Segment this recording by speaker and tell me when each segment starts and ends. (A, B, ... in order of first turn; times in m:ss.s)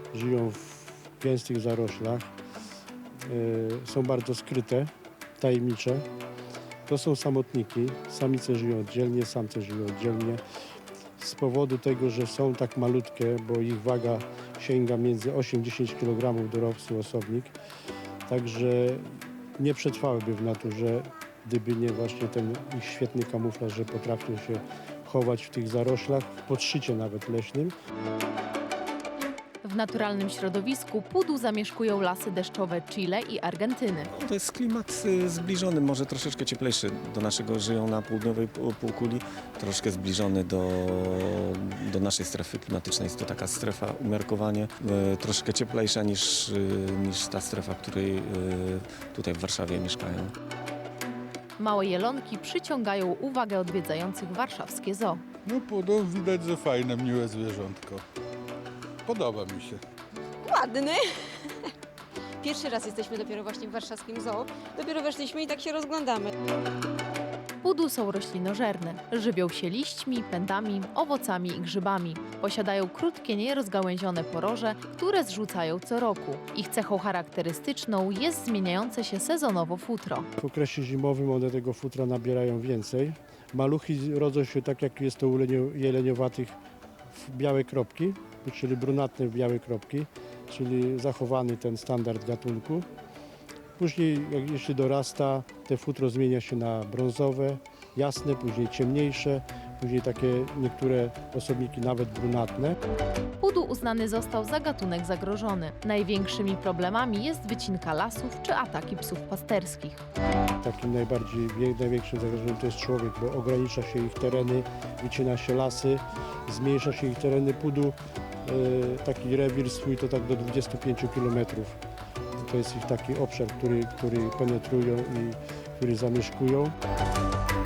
0:00.1-0:02.3 A
0:03.2-0:06.0 A
0:06.9-0:10.4 A
0:11.2-0:17.5 A
0:18.3-0:27.7 A
0:29.6-0:34.1 B
0:34.1-0:50.3 C
0:51.6-0:55.2 B
0:55.4-0:58.0 D
0:59.0-0:59.8 D
1:00.4-1:01.7 E
1:02.4-1:06.3 E
1:07.6-1:20.3 B
1:20.4-1:26.6 A
1:27.1-1:32.9 A
1:33.8-1:42.8 A
1:43.4-1:50.0 B
1:50.6-2:01.8 A
2:02.4-2:06.7 A